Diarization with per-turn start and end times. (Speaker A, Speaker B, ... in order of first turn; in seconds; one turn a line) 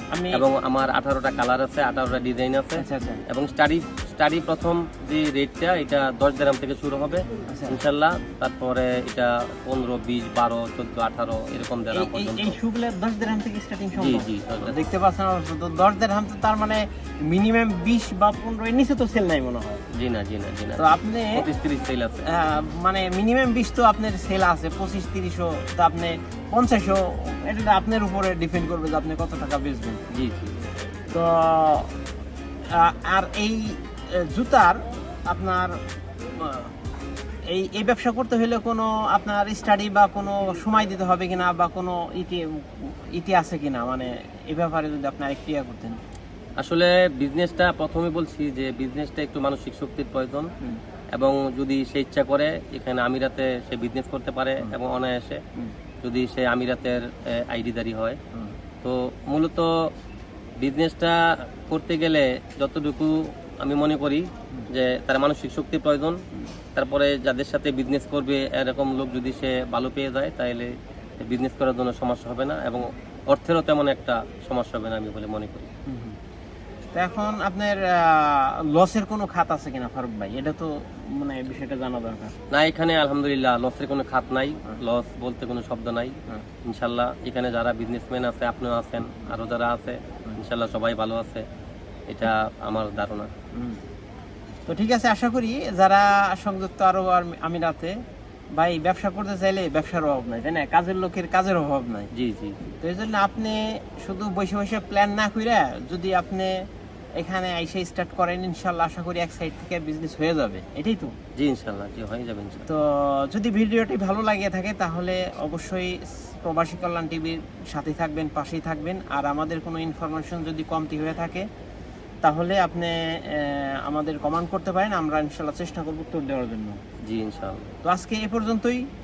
Speaker A: 0.1-0.4
Speaker B: 0.3-12.6
Speaker A: 2.8-3.2
Speaker A: 7.5-7.8
Speaker A: 11.9-19.8
Speaker B: 14.0-14.8
Speaker B: 19.9-22.2
Speaker A: 20.8-21.4
Speaker A: 22.3-30.0
Speaker B: 30.1-30.5
Speaker A: 31.1-31.9
Speaker A: 32.7-35.8
Speaker A: 36.3-36.7
Speaker A: 37.5-46.0
Speaker B: 46.6-50.5
Speaker B: 51.1-55.4
Speaker B: 56.0-58.2
Speaker B: 58.8-59.7
Speaker B: 60.6-66.2
Speaker B: 66.7-75.7
Speaker A: 75.9-76.2
Speaker A: 76.9-82.3
Speaker B: 82.5-91.4
Speaker B: 92.1-93.3
Speaker A: 93.5-93.8
Speaker A: 94.7-98.0
Speaker A: 98.5-102.1
Speaker B: 102.1-102.7
Speaker A: 102.8-106.7
Speaker A: 107.2-111.1
Speaker B: 111.4-112.7
Speaker A: 112.7-121.5
Speaker A: 122.2-126.8
Speaker B: 127.0-127.7
Speaker A: 127.8-128.8